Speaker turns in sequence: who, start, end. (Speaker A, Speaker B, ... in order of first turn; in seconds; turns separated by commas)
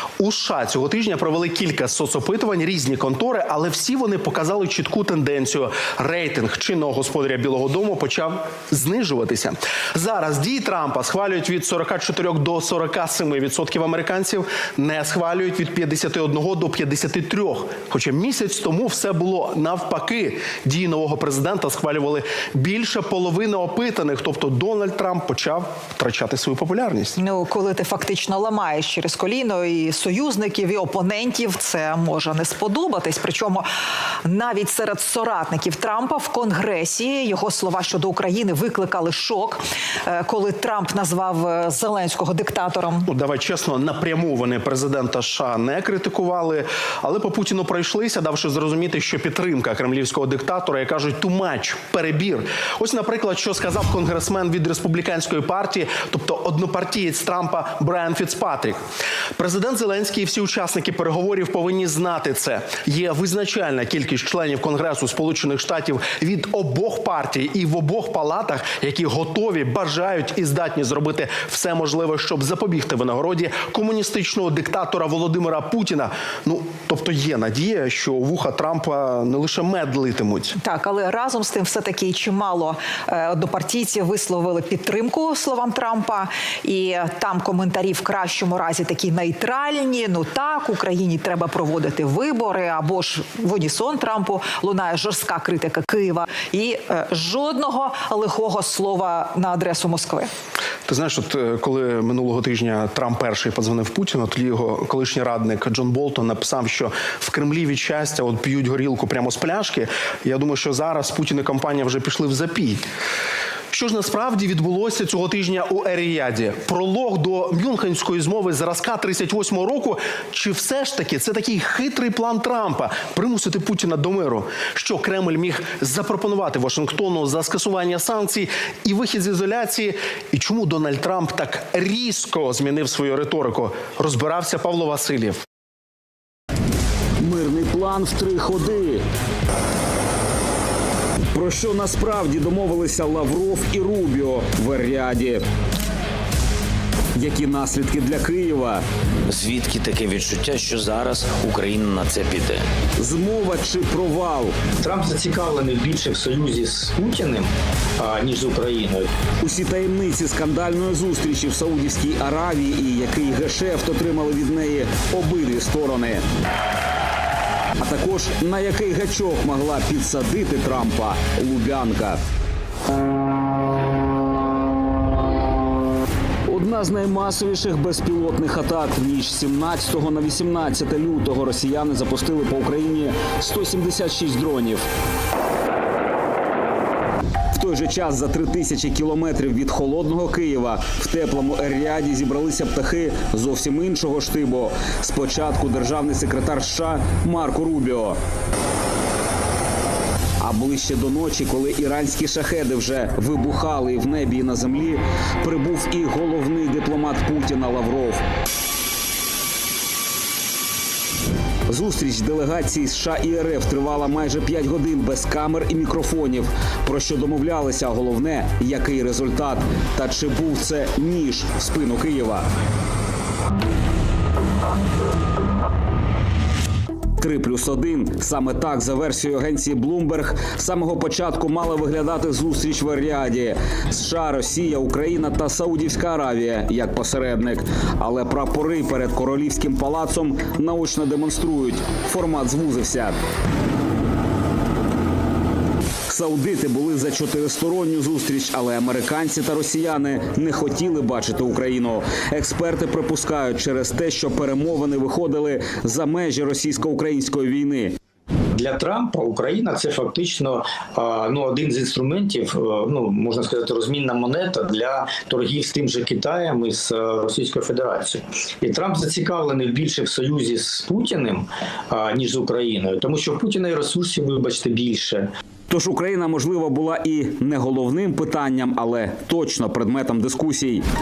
Speaker A: 0.2-27.1, Speaker B: 27.2-33.7, Speaker B: 34.2-43.1, Speaker A: 43.0-58.8, Speaker A: 59.4-80.5, Speaker B: 80.6-100.3, Speaker A: 100.9-112.8, Speaker A: 113.7-135.4, Speaker C: 137.2-139.0, Speaker C: 141.3-145.4, Speaker C: 147.1-148.8, Speaker D: 149.3-152.6, Speaker C: 153.0-154.5, Speaker E: 154.8-159.1, Speaker C: 159.4-166.2, Speaker C: 167.8-172.2, Speaker C: 176.5-184.8, Speaker C: 187.5-198.2, Speaker C: 200.4-208.2, Speaker C: 211.7-222.4, Speaker C: 227.2-243.2, Speaker C: 246.1-257.9, Speaker E: 258.5-275.3, Speaker C: 275.7-280.8